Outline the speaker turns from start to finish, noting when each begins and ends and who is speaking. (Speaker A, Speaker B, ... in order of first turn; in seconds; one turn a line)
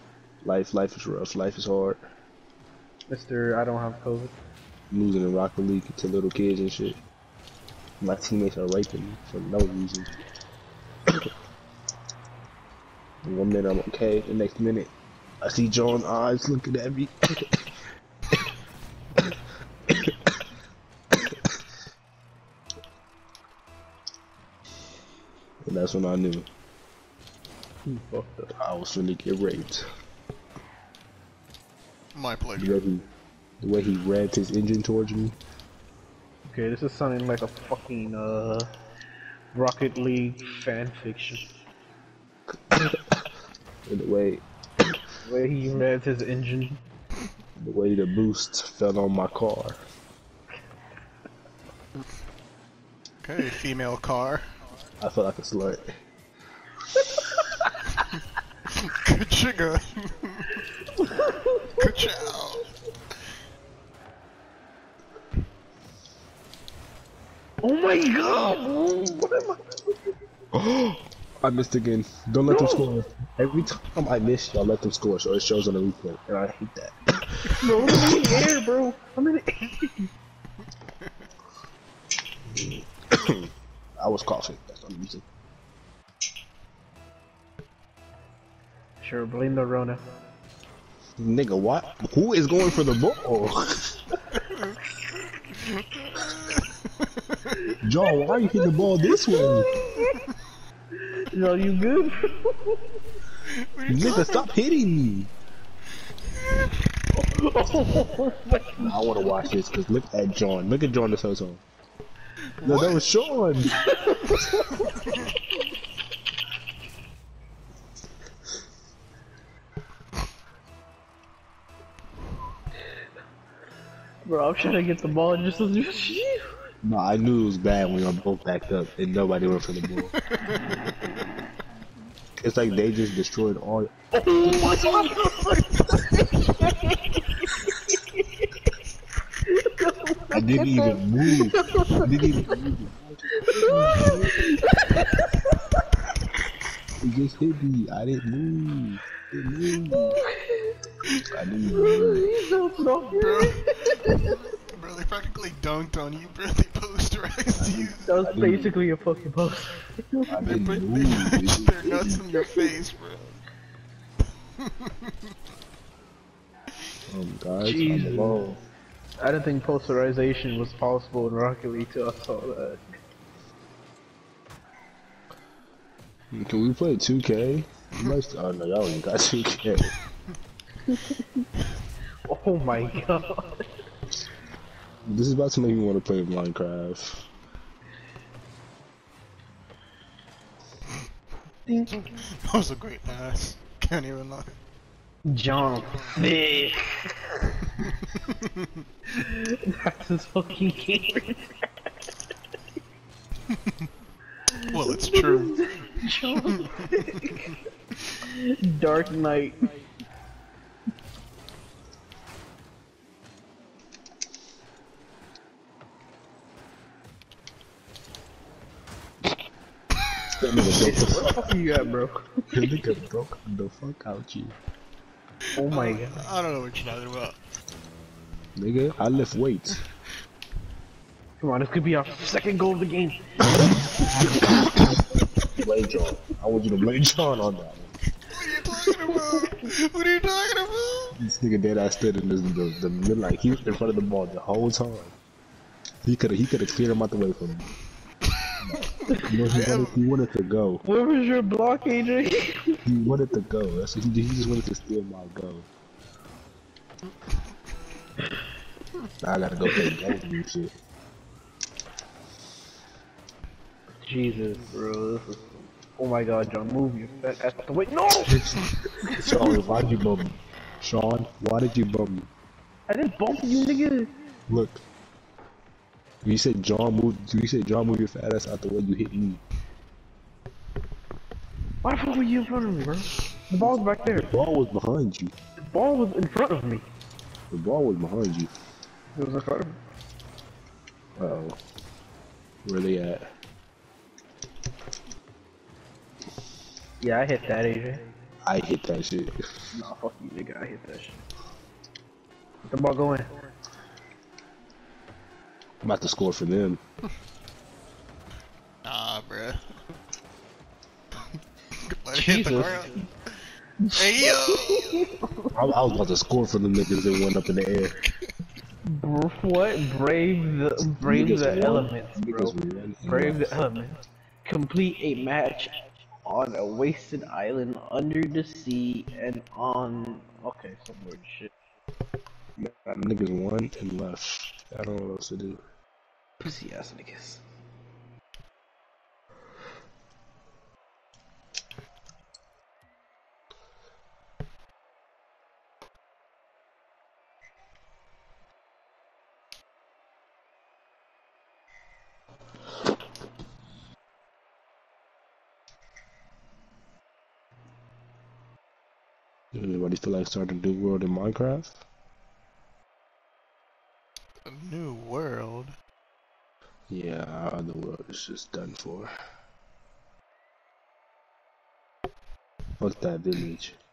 Speaker A: 0.4-2.0
Speaker B: 3.1-4.3
Speaker A: 4.9-7.0
Speaker A: 8.0-10.1
Speaker A: 13.2-17.6
Speaker A: 19.9-20.2
Speaker A: 25.7-26.5
Speaker B: 27.9-28.5
Speaker A: 28.6-29.9
Speaker C: 32.1-32.8
Speaker A: 32.6-33.1
Speaker A: 33.6-35.4
Speaker B: 36.5-38.7
Speaker B: 39.5-41.5
Speaker A: 42.7-43.0
Speaker A: 43.9-44.5
Speaker B: 45.2-46.8
Speaker A: 47.6-49.8
Speaker C: 53.2-54.5
Speaker A: 55.0-55.9
Speaker C: 58.7-60.7
Speaker B: 60.9-61.9
Speaker C: 61.8-62.7
Speaker B: 67.6-70.2
Speaker A: 70.5-78.4
Speaker B: 72.5-72.9
Speaker B: 77.6-80.1
Speaker A: 82.5-85.3
Speaker B: 89.0-90.0
Speaker A: 91.2-94.0
Speaker C: 94.3-94.8
Speaker C: 95.6-97.7
Speaker A: 97.8-99.7
Speaker B: 99.2-100.3
Speaker B: 101.0-102.9
Speaker C: 103.5-104.5
Speaker A: 103.9-105.3
Speaker C: 106.4-106.7
Speaker B: 107.1-109.3
Speaker A: 108.8-111.6
Speaker C: 112.6-113.1
Speaker A: 112.6-113.8
Speaker B: 113.8-114.8
Speaker C: 114.9-115.2
Speaker B: 124.3-126.4
Speaker A: 126.8-130.1
Speaker C: 130.1-130.6
Speaker A: 132.4-133.9
Speaker B: 134.1-138.5
Speaker C: 134.5-136.9
Speaker B: 139.4-142.6
Speaker A: 140.3-144.5
Speaker B: 143.3-145.8
Speaker A: 147.0-150.2
Speaker B: 149.9-150.8
Speaker A: 151.3-152.3
Speaker B: 151.7-154.4
Speaker C: 153.1-153.6
Speaker C: 154.7-158.1
Speaker A: 157.6-158.8
Speaker B: 158.1-160.4
Speaker A: 160.3-162.2
Speaker C: 160.4-163.4
Speaker C: 164.6-165.1
Speaker A: 167.1-168.6
Speaker B: 167.6-168.5
Speaker B: 169.2-172.8
Speaker A: 176.3-179.9
Speaker B: 180.9-181.2
Speaker B: 182.3-183.6
Speaker A: 185.1-187.3
Speaker B: 191.7-192.1
Speaker C: 192.2-194.6
Speaker B: 195.3-197.7
Speaker C: 197.8-198.8
Speaker B: 199.1-201.5
Speaker B: 204.5-207.5
Speaker C: 204.7-207.5
Speaker B: 208.3-209.7
Speaker A: 220.3-221.5
Speaker B: 220.7-222.7
Speaker A: 222.5-224.6
Speaker C: 225.6-227.4
Speaker B: 225.6-226.2
Speaker A: 228.6-229.8
Speaker B: 231.4-234.7
Speaker A: 235.6-237.9
Speaker C: 238.3-241.2
Speaker B: 238.7-239.6
Speaker A: 241.2-245.2
Speaker A: 246.0-247.7
Speaker A: 248.6-250.8
Speaker C: 249.4-250.0
Speaker B: 250.8-252.8
Speaker A: 252.8-255.7
Speaker A: 259.2-260.7
Speaker B: 259.7-260.0
Speaker B: 264.0-269.6
Speaker A: 268.3-272.3
Speaker B: 272.9-274.1
Speaker A: 274.5-274.8
Speaker A: 276.2-279.4
Speaker B: 281.8-284.3
Speaker A: 284.1-285.3
Speaker B: 285.6-286.9
Speaker A: 287.5-288.5
Speaker B: 289.1-289.8
Speaker A: 291.2-291.6
Speaker A: 292.6-293.3
Speaker B: 297.0-298.0
Speaker A: 298.4-299.4
Speaker B: 299.7-301.2
Speaker B: 302.7-303.3
Speaker A: 305.8-306.8
Speaker C: 308.8-309.6
Speaker C: 311.9-313.0
Speaker B: 312.1-313.0
Speaker B: 313.8-315.5
Speaker C: 314.0-315.1
Speaker A: 315.5-318.0
Speaker B: 318.9-331.5
Speaker A: 321.0-323.6
Speaker A: 332.6-335.6
Speaker B: 336.4-337.4
Speaker A: 359.5-361.8
Speaker C: 364.4-365.8
Speaker A: 366.9-369.1
Speaker A: 372.8-373.8